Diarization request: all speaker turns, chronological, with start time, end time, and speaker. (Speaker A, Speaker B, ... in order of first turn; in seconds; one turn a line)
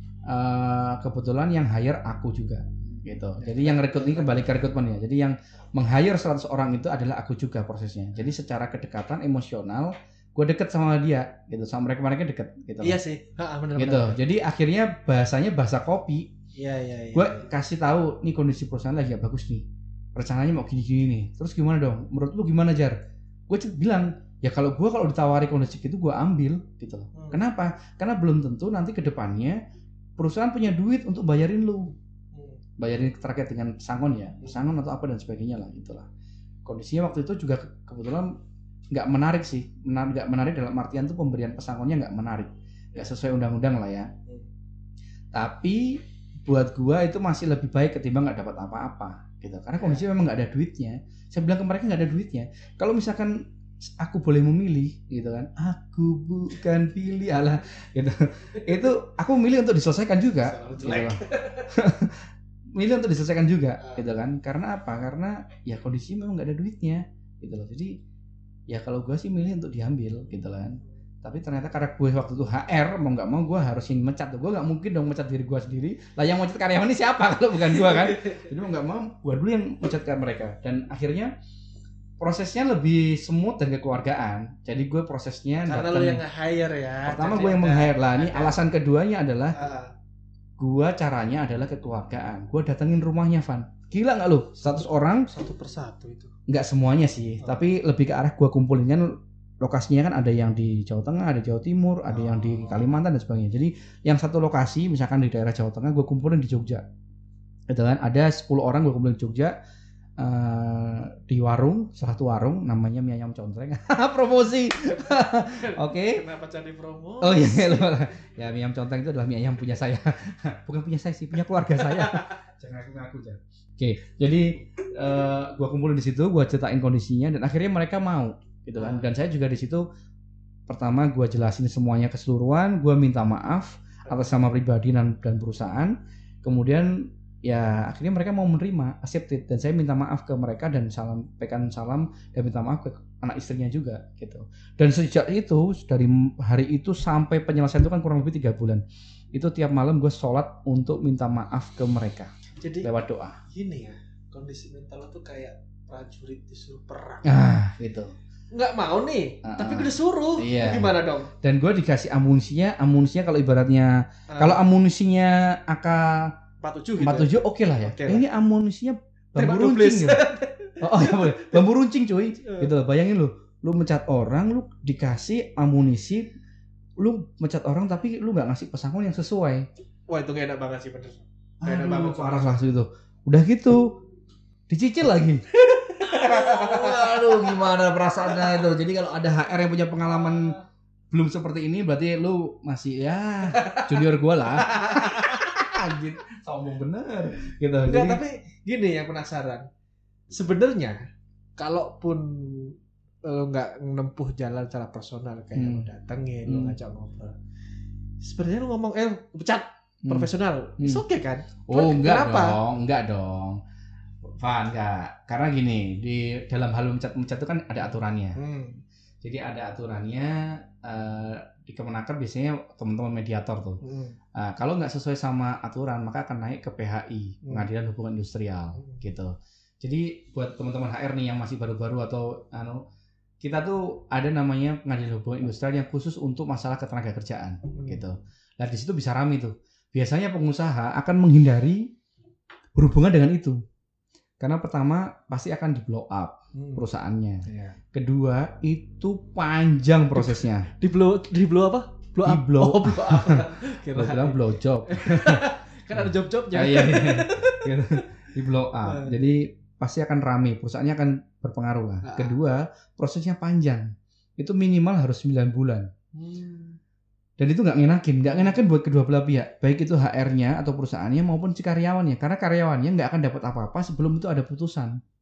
Speaker A: 0.3-13.0
Speaker B: 2.9-4.4
Speaker B: 12.8-14.2
Speaker A: 13.8-16.3
Speaker B: 16.6-17.5
Speaker A: 17.1-23.0
Speaker A: 23.5-29.6
Speaker B: 27.1-27.4
Speaker A: 30.2-31.9
Speaker B: 32.3-32.6
Speaker A: 32.8-36.1
Speaker A: 36.6-38.3
Speaker A: 38.9-44.1
Speaker A: 45.3-53.4
Speaker B: 49.7-50.0
Speaker A: 54.0-68.0
Speaker B: 60.4-61.7
Speaker B: 63.8-64.0
Speaker A: 68.7-81.3
Speaker B: 77.7-78.5
Speaker A: 82.2-86.2
Speaker B: 85.6-88.6
Speaker A: 87.0-89.6
Speaker B: 89.5-89.9
Speaker A: 90.6-95.3
Speaker B: 94.6-96.3
Speaker A: 96.5-106.8
Speaker B: 102.1-102.9
Speaker A: 107.7-109.5
Speaker A: 110.2-116.2
Speaker B: 114.9-117.9
Speaker A: 117.2-129.8
Speaker B: 121.5-122.4
Speaker B: 128.7-129.1
Speaker A: 130.7-153.4
Speaker B: 134.1-134.3
Speaker B: 152.6-152.9
Speaker B: 153.5-157.5
Speaker A: 157.2-158.1
Speaker B: 158.5-161.3
Speaker A: 159.4-166.3
Speaker B: 164.3-164.6
Speaker B: 166.6-168.2
Speaker A: 167.0-170.2
Speaker B: 169.3-171.6
Speaker A: 170.8-176.3
Speaker B: 172.4-172.7
Speaker A: 177.0-179.7
Speaker B: 180.1-182.6
Speaker A: 181.6-183.8
Speaker A: 184.7-185.4
Speaker B: 185.6-187.6
Speaker A: 186.0-190.5
Speaker B: 188.3-188.6
Speaker B: 190.1-190.6
Speaker A: 191.1-198.2
Speaker B: 193.5-195.5
Speaker B: 197.8-199.6
Speaker B: 200.3-201.0
Speaker B: 201.6-207.3
Speaker A: 205.5-205.9
Speaker A: 206.4-206.8
Speaker B: 208.2-212.6
Speaker A: 210.0-211.0
Speaker A: 211.7-213.6
Speaker A: 214.4-218.4
Speaker B: 218.3-218.8
Speaker A: 219.2-223.8
Speaker B: 223.8-224.2
Speaker A: 224.3-232.8
Speaker B: 228.8-229.0
Speaker A: 233.4-241.8
Speaker B: 237.7-238.1
Speaker A: 242.7-243.6
Speaker A: 244.4-250.7
Speaker B: 246.5-246.8
Speaker B: 247.4-247.8
Speaker B: 250.2-258.0
Speaker A: 252.2-265.9
Speaker B: 258.8-259.3
Speaker B: 262.0-262.4
Speaker B: 266.1-266.8
Speaker A: 267.4-275.0
Speaker B: 268.3-268.6